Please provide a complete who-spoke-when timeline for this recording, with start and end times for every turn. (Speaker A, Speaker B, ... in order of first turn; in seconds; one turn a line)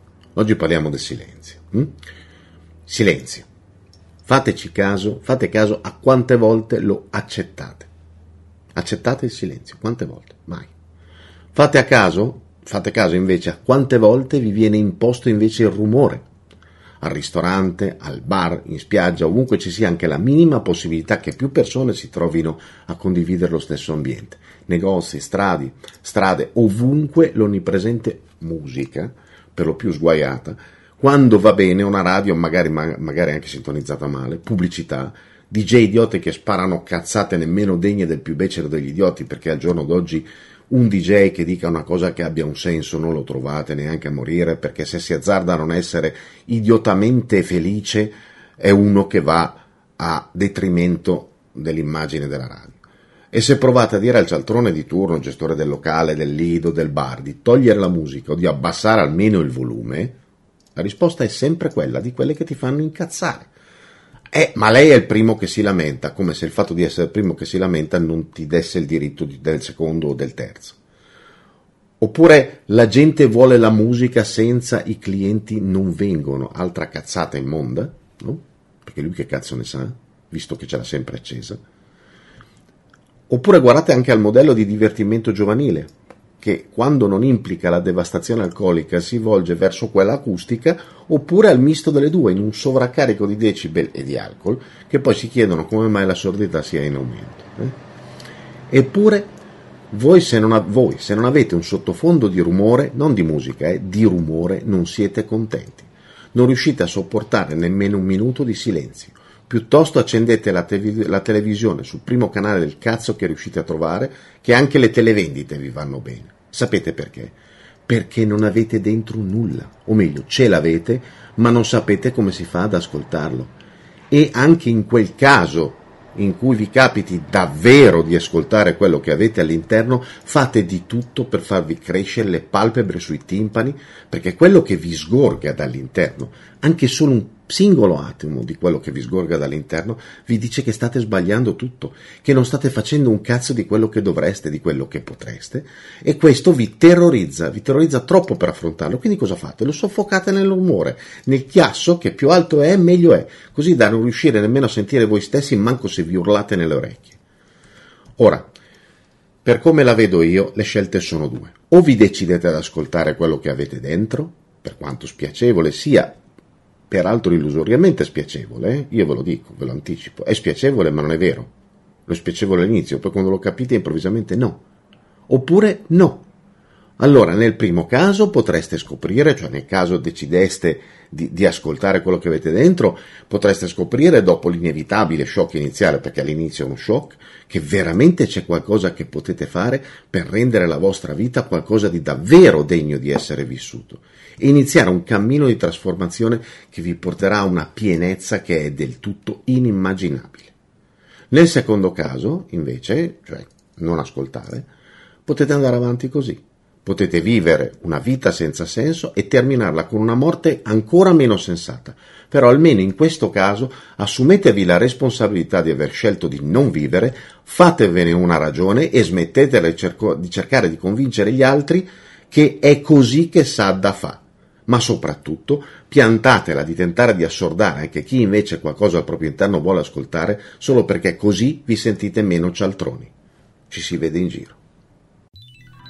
Speaker A: 0.4-1.9
Speaker A: 2.9-3.5
Speaker A: 4.3-7.9
Speaker A: 8.8-10.7
Speaker A: 11.5-16.3
Speaker A: 17.0-60.1
Speaker A: 60.8-63.5
Speaker A: 64.3-70.8
Speaker A: 72.0-81.6
Speaker A: 83.3-97.8
Speaker A: 98.7-99.3
Speaker A: 99.9-117.4
Speaker A: 117.9-123.5
Speaker A: 124.1-157.2
Speaker A: 158.2-158.5
Speaker A: 159.4-166.2
Speaker A: 166.9-171.5
Speaker A: 172.1-174.6
Speaker A: 175.3-176.3
Speaker A: 177.0-200.5
Speaker A: 201.3-204.7
Speaker A: 205.3-233.1
Speaker A: 233.7-234.6